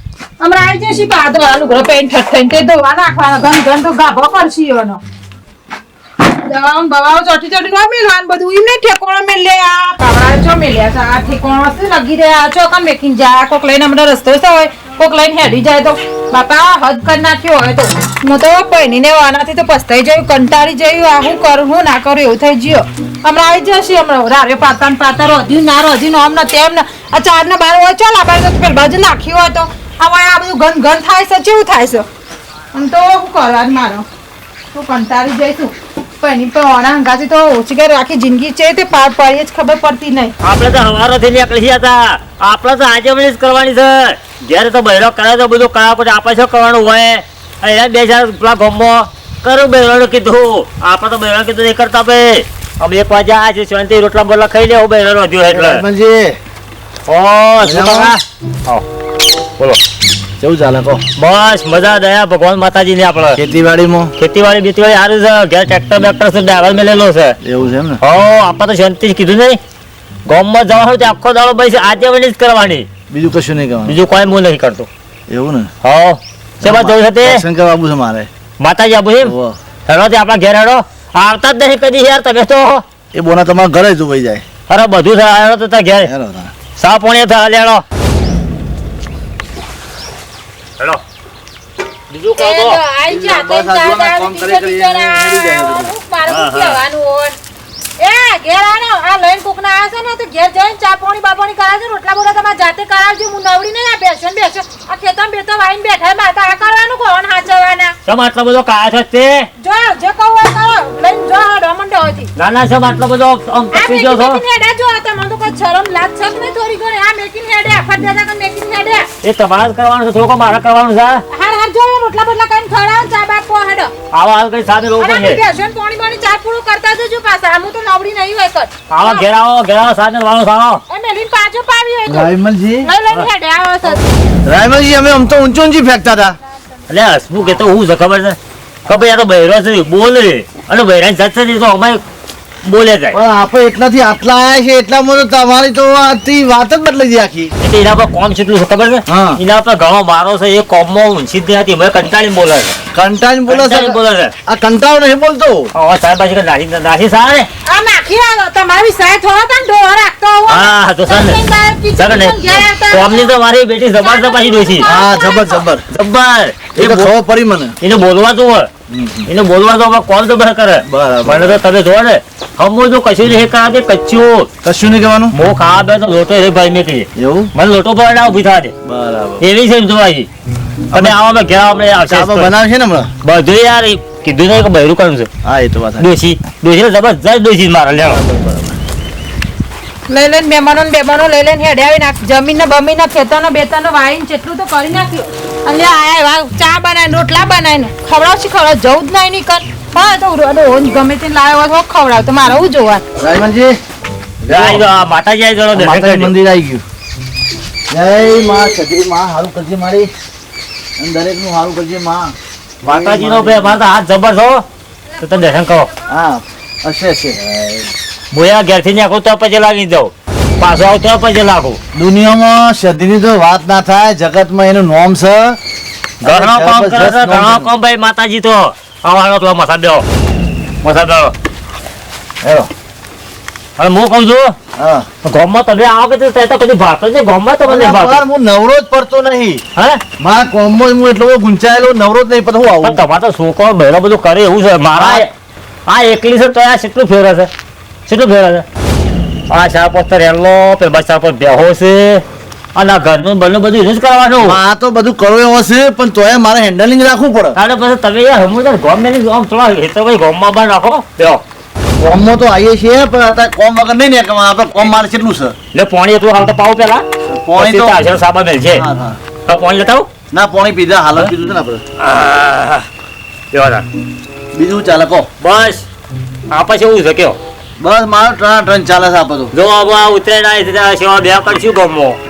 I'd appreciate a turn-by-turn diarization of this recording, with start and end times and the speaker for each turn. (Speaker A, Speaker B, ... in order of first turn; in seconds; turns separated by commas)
Speaker A: 0.4-5.0, Speaker A: 6.2-32.0, Speaker A: 32.7-34.0, Speaker A: 34.7-40.3, Speaker B: 40.4-55.8, Speaker C: 55.5-56.4, Speaker B: 57.1-58.8, Speaker C: 57.6-58.2, Speaker C: 60.4-61.0, Speaker B: 61.1-63.4, Speaker C: 63.3-64.1, Speaker B: 64.2-67.4, Speaker C: 67.4-68.0, Speaker B: 68.0-69.6, Speaker B: 70.3-72.9, Speaker C: 73.1-74.0, Speaker B: 73.8-74.9, Speaker C: 75.3-75.7, Speaker B: 75.8-77.4, Speaker C: 76.6-78.3, Speaker B: 78.6-79.3, Speaker C: 79.2-79.5, Speaker B: 79.9-82.8, Speaker C: 83.1-84.4, Speaker B: 84.7-86.1, Speaker C: 86.0-86.5, Speaker B: 86.8-87.8, Speaker B: 92.1-92.8, Speaker A: 92.3-97.4, Speaker C: 93.1-95.9, Speaker B: 96.3-96.8, Speaker A: 98.0-107.9, Speaker B: 108.0-109.5, Speaker A: 109.6-112.3, Speaker B: 112.3-114.4, Speaker A: 113.7-119.1, Speaker B: 119.2-121.2, Speaker A: 121.3-123.9, Speaker B: 124.1-125.4, Speaker A: 125.0-129.2, Speaker B: 128.9-130.8, Speaker A: 130.9-134.0, Speaker C: 132.1-132.9, Speaker C: 134.4-136.3, Speaker B: 136.9-142.0, Speaker B: 142.6-143.2, Speaker C: 143.1-147.5, Speaker B: 147.6-152.8, Speaker C: 149.1-149.4, Speaker C: 152.9-155.7, Speaker B: 153.5-154.3, Speaker B: 155.7-157.5, Speaker A: 157.7-163.3, Speaker B: 160.5-161.4, Speaker B: 162.0-164.9, Speaker A: 164.0-165.6, Speaker C: 164.8-165.8, Speaker B: 165.9-167.1, Speaker C: 166.8-167.8, Speaker B: 167.8-168.7, Speaker C: 168.9-169.3, Speaker B: 169.3-174.5, Speaker C: 170.9-171.6, Speaker C: 174.6-175.3, Speaker B: 175.3-178.7, Speaker C: 177.2-177.5, Speaker C: 178.8-179.4, Speaker B: 179.4-180.3, Speaker C: 180.9-181.2, Speaker B: 180.9-182.5, Speaker C: 182.1-183.1, Speaker B: 183.2-185.3, Speaker C: 185.4-186.1, Speaker B: 186.0-188.2, Speaker C: 188.1-188.7, Speaker A: 190.1-203.0, Speaker C: 203.2-203.8, Speaker C: 204.4-204.8, Speaker B: 204.5-206.3, Speaker C: 205.7-206.8, Speaker C: 207.9-210.1, Speaker C: 211.0-213.8, Speaker B: 212.8-214.6, Speaker B: 215.2-215.9, Speaker C: 216.1-217.9, Speaker B: 218.3-221.8, Speaker C: 221.9-225.6, Speaker B: 226.2-230.0, Speaker C: 226.2-227.7, Speaker B: 230.8-231.3, Speaker C: 232.4-232.7, Speaker B: 233.8-234.5, Speaker C: 234.8-235.1, Speaker B: 235.2-238.2, Speaker C: 237.6-239.6, Speaker B: 239.8-240.0, Speaker C: 240.2-243.0, Speaker B: 242.8-245.3, Speaker C: 244.9-245.2, Speaker B: 245.9-247.5, Speaker B: 248.1-248.6, Speaker B: 249.5-252.2, Speaker B: 252.7-254.6, Speaker C: 254.4-257.6, Speaker B: 257.6-261.4, Speaker C: 262.0-265.6, Speaker B: 265.7-267.0, Speaker C: 267.2-268.0, Speaker B: 267.6-268.8, Speaker C: 268.7-269.2, Speaker B: 269.4-270.1, Speaker C: 270.3-271.8, Speaker B: 272.0-272.8, Speaker B: 273.5-273.8, Speaker C: 274.5-275.3, Speaker B: 275.4-275.8, Speaker B: 276.5-277.4, Speaker C: 277.8-279.5, Speaker B: 279.5-282.2